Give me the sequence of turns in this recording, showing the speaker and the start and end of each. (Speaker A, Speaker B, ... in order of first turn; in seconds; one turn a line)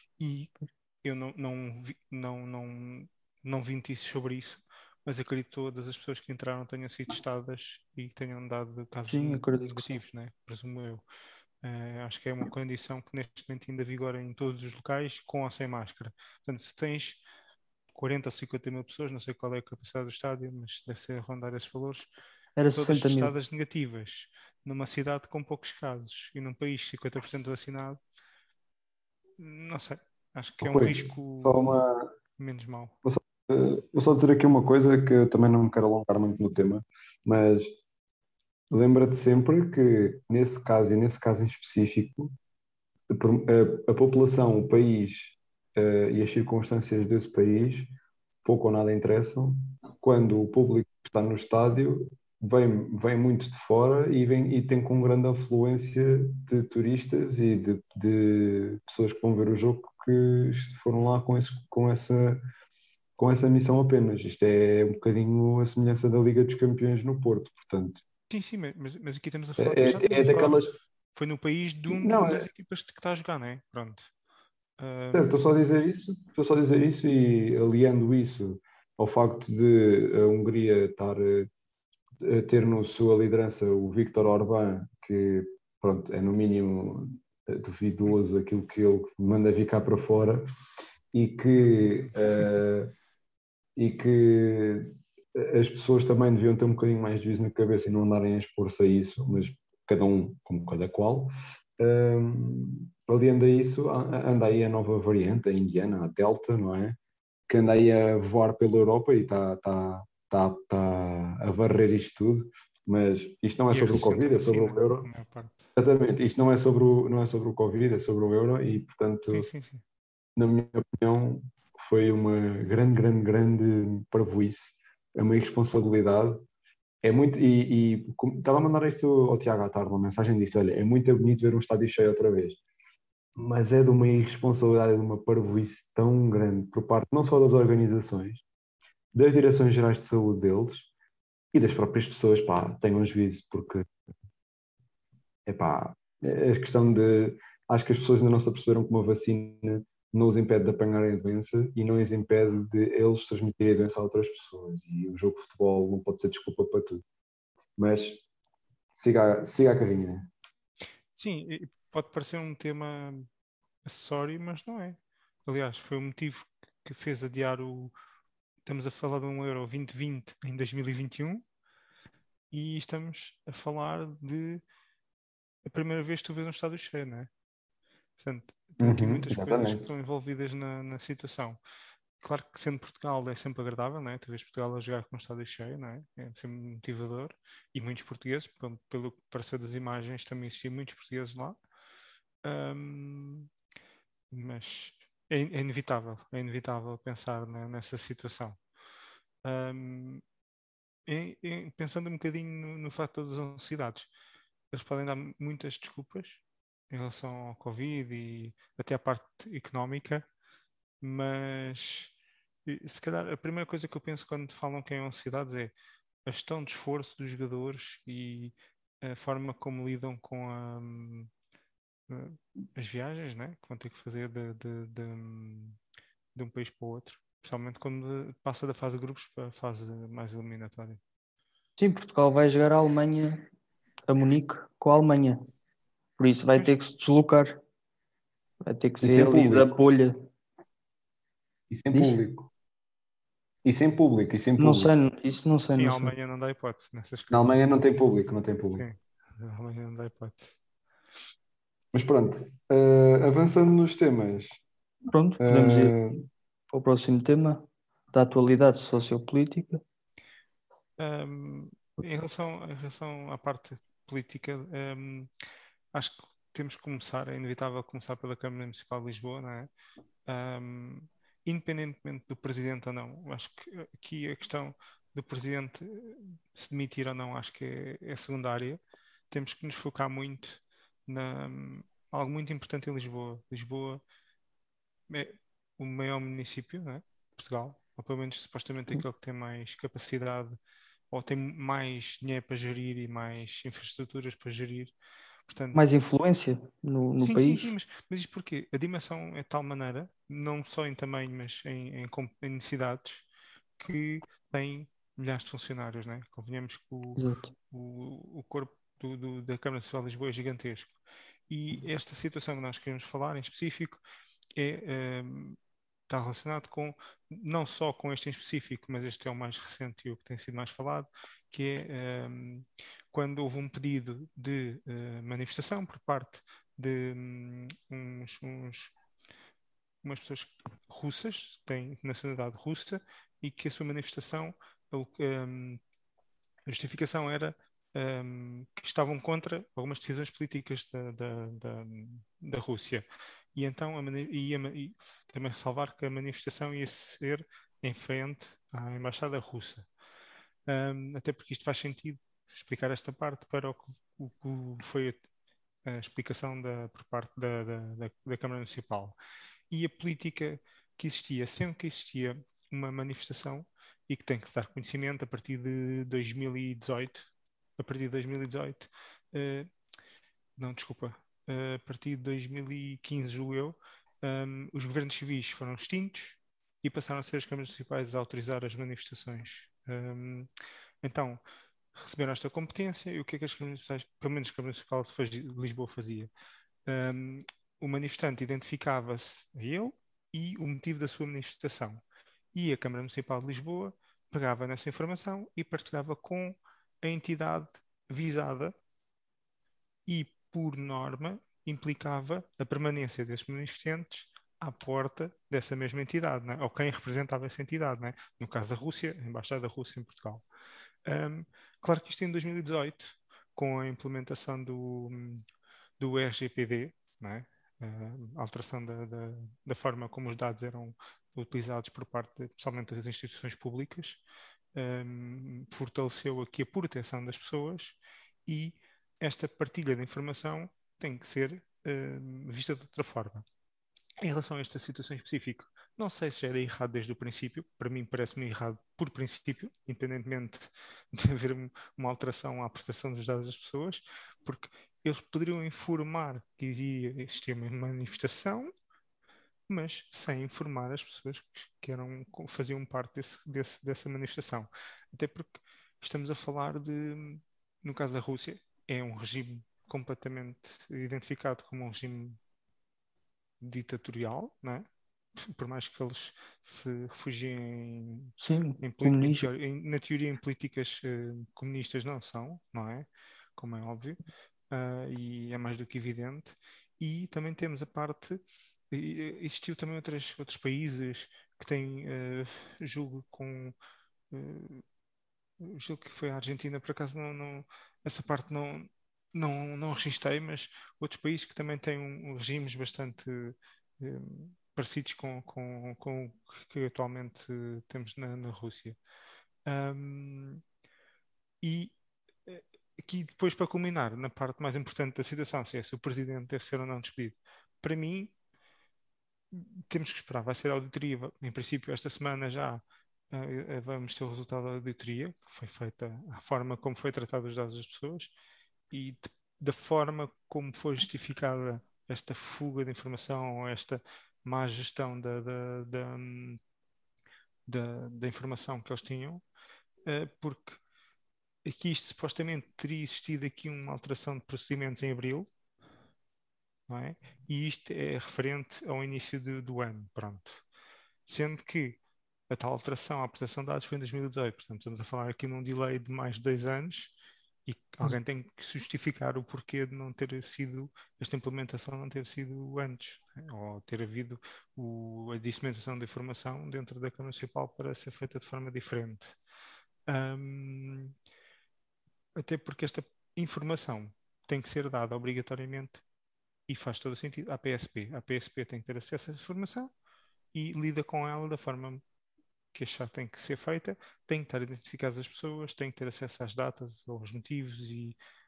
Speaker A: 0.2-0.5
Speaker A: 1.0-11.0
Speaker B: 9.1-10.0
Speaker A: 11.6-17.2
Speaker A: 17.9-22.1
Speaker B: 22.6-23.3
Speaker A: 22.7-28.0
Speaker A: 29.4-31.6
Speaker C: 30.6-32.1
Speaker A: 32.4-32.9
Speaker C: 33.0-37.7
Speaker C: 38.7-42.3
Speaker C: 43.1-47.9
Speaker C: 48.4-62.4
Speaker C: 63.2-68.0
Speaker A: 68.3-70.6
Speaker C: 69.6-70.7
Speaker A: 71.1-74.1
Speaker C: 71.9-72.5
Speaker A: 74.8-75.3
Speaker C: 75.1-81.5
Speaker C: 82.2-90.5
Speaker C: 91.1-92.9
Speaker C: 93.8-107.0
Speaker C: 107.5-115.1
Speaker A: 113.7-115.7
Speaker C: 115.8-119.5
Speaker A: 119.3-119.8
Speaker C: 120.4-126.4
Speaker C: 127.0-132.6
Speaker C: 133.4-138.4
Speaker C: 139.1-140.9
Speaker C: 141.5-143.8
Speaker C: 145.5-157.0
Speaker C: 157.8-158.2
Speaker C: 158.9-160.3
Speaker A: 161.1-163.3
Speaker A: 163.8-167.9
Speaker A: 168.6-171.4
Speaker A: 172.5-174.6
Speaker A: 175.6-177.3
Speaker A: 178.2-181.6
Speaker C: 178.8-179.9
Speaker A: 182.2-191.6
Speaker A: 192.4-193.5
Speaker A: 194.3-198.6
Speaker A: 199.4-200.2
Speaker A: 201.1-204.1
Speaker A: 204.7-210.2
Speaker A: 211.0-215.7
Speaker A: 216.2-221.3
Speaker A: 222.1-225.8
Speaker A: 226.3-231.0
Speaker B: 231.8-233.5
Speaker B: 234.1-235.4
Speaker B: 236.2-237.6
Speaker B: 238.6-240.3
Speaker C: 239.0-239.7
Speaker C: 241.7-242.5
Speaker C: 243.6-244.9
Speaker B: 244.6-246.1
Speaker A: 245.7-247.6
Speaker C: 247.3-248.8
Speaker A: 248.7-250.6
Speaker C: 251.9-254.6
Speaker B: 255.1-256.0
Speaker C: 255.4-256.1
Speaker B: 256.7-259.8
Speaker A: 261.0-265.3
Speaker A: 265.9-269.7
Speaker A: 270.3-278.8
Speaker A: 279.3-284.0
Speaker A: 285.1-290.6
Speaker A: 291.1-294.9
Speaker A: 295.5-295.8
Speaker B: 295.7-297.7
Speaker A: 297.2-303.3
Speaker A: 303.8-311.0
Speaker B: 307.2-307.5
Speaker A: 311.5-314.0
Speaker A: 314.6-315.6
Speaker A: 316.1-328.9
Speaker A: 330.0-335.8
Speaker A: 336.7-349.9
Speaker A: 350.7-355.2
Speaker A: 355.9-359.2
Speaker A: 359.7-369.7
Speaker A: 370.6-380.5
Speaker A: 381.0-381.4
Speaker A: 381.9-386.3
Speaker A: 386.9-392.0
Speaker A: 392.5-398.8
Speaker A: 400.1-410.4
Speaker A: 411.1-415.4
Speaker A: 416.0-424.2
Speaker A: 424.8-433.4
Speaker A: 434.2-448.7
Speaker A: 449.7-462.4
Speaker A: 463.6-474.2
Speaker B: 468.4-469.5
Speaker A: 474.7-478.4
Speaker A: 478.9-483.8
Speaker A: 484.3-484.8
Speaker A: 485.6-499.0
Speaker A: 499.6-500.6
Speaker A: 501.6-501.9
Speaker A: 502.5-508.3
Speaker A: 509.5-518.3
Speaker A: 518.9-526.6
Speaker A: 527.7-529.4
Speaker A: 530.1-530.8
Speaker A: 531.6-535.5
Speaker A: 536.9-540.6
Speaker A: 541.2-547.1
Speaker A: 547.6-559.4
Speaker A: 560.1-561.1
Speaker A: 562.4-566.0
Speaker A: 566.7-569.9
Speaker A: 570.5-572.0
Speaker A: 572.7-578.2